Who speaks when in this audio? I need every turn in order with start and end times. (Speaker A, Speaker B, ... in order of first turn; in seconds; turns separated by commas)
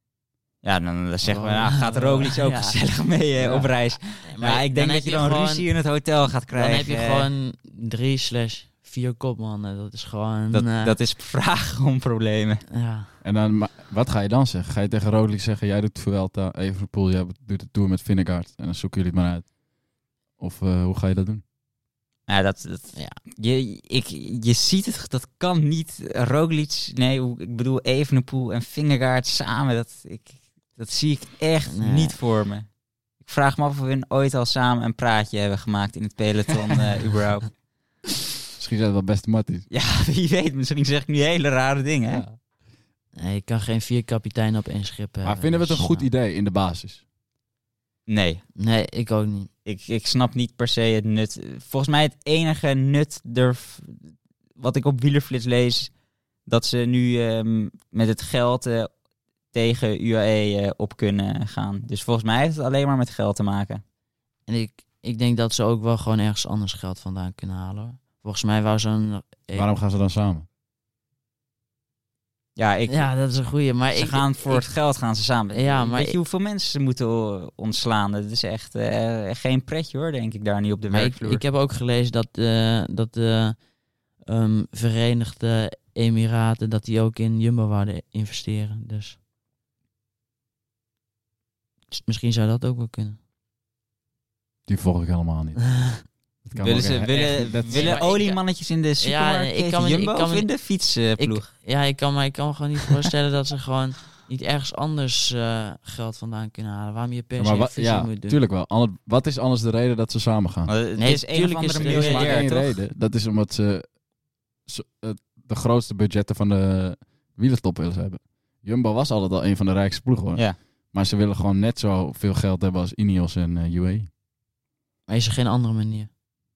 Speaker A: 0.6-7.3, Speaker B: 1.2-2.8, Speaker C: 3.4-3.7, Speaker B: 4.2-5.7, Speaker B: 6.5-10.9, Speaker A: 10.5-12.7, Speaker B: 12.7-13.1, Speaker C: 13.2-19.6, Speaker C: 20.4-21.4, Speaker A: 22.3-37.6, Speaker B: 31.7-32.2, Speaker C: 38.6-39.7, Speaker A: 39.7-42.2, Speaker C: 42.1-42.4, Speaker B: 43.2-46.1, Speaker C: 45.2-47.0, Speaker A: 48.1-48.4, Speaker B: 48.6-49.5, Speaker A: 49.6-55.9, Speaker A: 56.5-58.9, Speaker A: 59.5-63.8, Speaker B: 64.5-69.7, Speaker C: 69.5-70.5, Speaker A: 72.6-73.1, Speaker B: 72.9-74.7, Speaker A: 73.9-81.4, Speaker B: 75.5-76.2, Speaker B: 80.9-89.2, Speaker B: 91.9-93.2, Speaker C: 94.7-98.0, Speaker A: 96.6-101.5, Speaker B: 97.7-98.4, Speaker B: 99.0-108.4, Speaker C: 107.4-110.7, Speaker A: 110.7-112.8, Speaker B: 111.0-112.4, Speaker C: 111.8-114.0, Speaker C: 114.7-124.1, Speaker B: 125.1-126.1